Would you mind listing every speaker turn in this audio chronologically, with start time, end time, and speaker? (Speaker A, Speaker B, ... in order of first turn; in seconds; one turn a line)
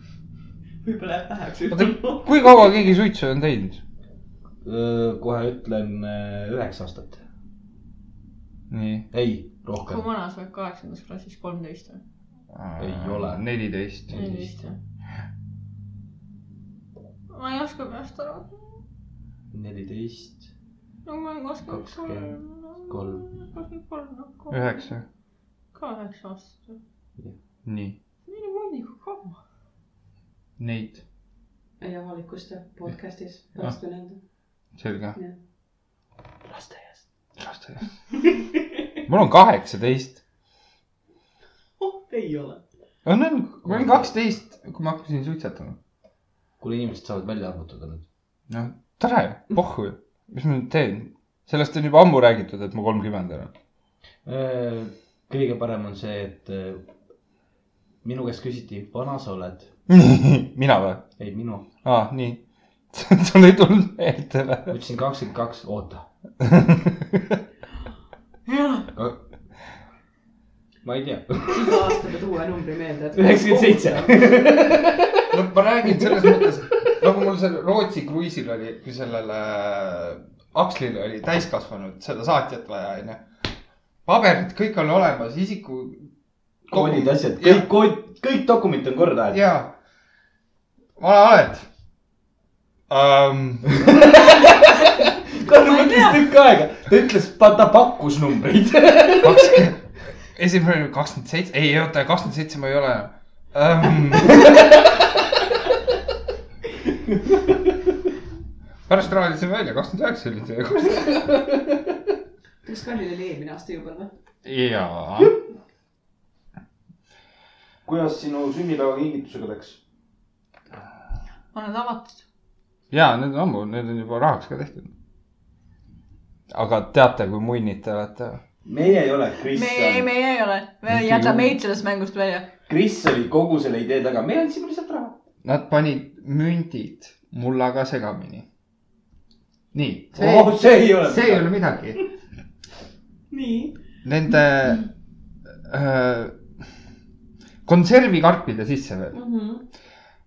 Speaker A: 0.8-2.8
Speaker B: 1.7-3.8
Speaker C: 4.6-7.2
Speaker B: 8.7-9.1
Speaker C: 9.1-10.0
Speaker D: 9.9-12.0
Speaker B: 12.5-14.2
Speaker C: 12.8-13.4
Speaker C: 14.1-14.4
Speaker D: 14.1-14.8
Speaker D: 17.3-18.6
Speaker C: 19.5-20.5
Speaker D: 21.1-24.8
Speaker C: 21.7-22.3
Speaker C: 22.9-23.3
Speaker B: 24.5-25.0
Speaker D: 25.7-26.8
Speaker B: 27.6-28.0
Speaker D: 28.3-29.4
Speaker B: 30.6-31.0
Speaker A: 31.8-34.2
Speaker B: 34.8-35.2
Speaker C: 36.5-37.0
Speaker B: 37.4-37.9
Speaker B: 39.0-40.2
Speaker A: 41.8-42.6
Speaker B: 43.0-45.8
Speaker C: 43.6-44.1
Speaker C: 46.6-48.0
Speaker B: 48.5-53.5
Speaker C: 54.2-56.9
Speaker C: 58.0-59.7
Speaker B: 59.9-61.1
Speaker C: 61.2-61.7
Speaker B: 61.8-64.7
Speaker C: 64.7-66.0
Speaker B: 66.4-67.4
Speaker D: 68.5-68.9
Speaker C: 70.8-72.0
Speaker A: 71.5-74.5
Speaker C: 73.1-75.4
Speaker B: 75.3-83.2
Speaker C: 75.9-76.5
Speaker B: 84.1-86.1
Speaker B: 86.7-87.7
Speaker C: 86.7-89.4
Speaker B: 89.3-89.7
Speaker B: 91.0-91.7
Speaker B: 92.9-94.0
Speaker C: 93.8-99.7
Speaker D: 95.4-96.2
Speaker B: 99.2-104.8
Speaker B: 108.9-111.4
Speaker A: 112.6-114.1
Speaker B: 114.5-115.4
Speaker C: 117.8-119.8
Speaker D: 121.5-122.2
Speaker B: 122.9-124.9
Speaker B: 126.5-128.4
Speaker C: 128.7-130.1
Speaker D: 129.4-132.5
Speaker C: 131.1-131.5
Speaker C: 132.7-135.2
Speaker B: 135.4-138.5
Speaker B: 139.7-142.0
Speaker C: 140.1-141.5
Speaker A: 143.3-143.8
Speaker B: 144.1-144.9
Speaker B: 145.7-146.4
Speaker B: 147.7-149.2
Speaker A: 149.1-149.6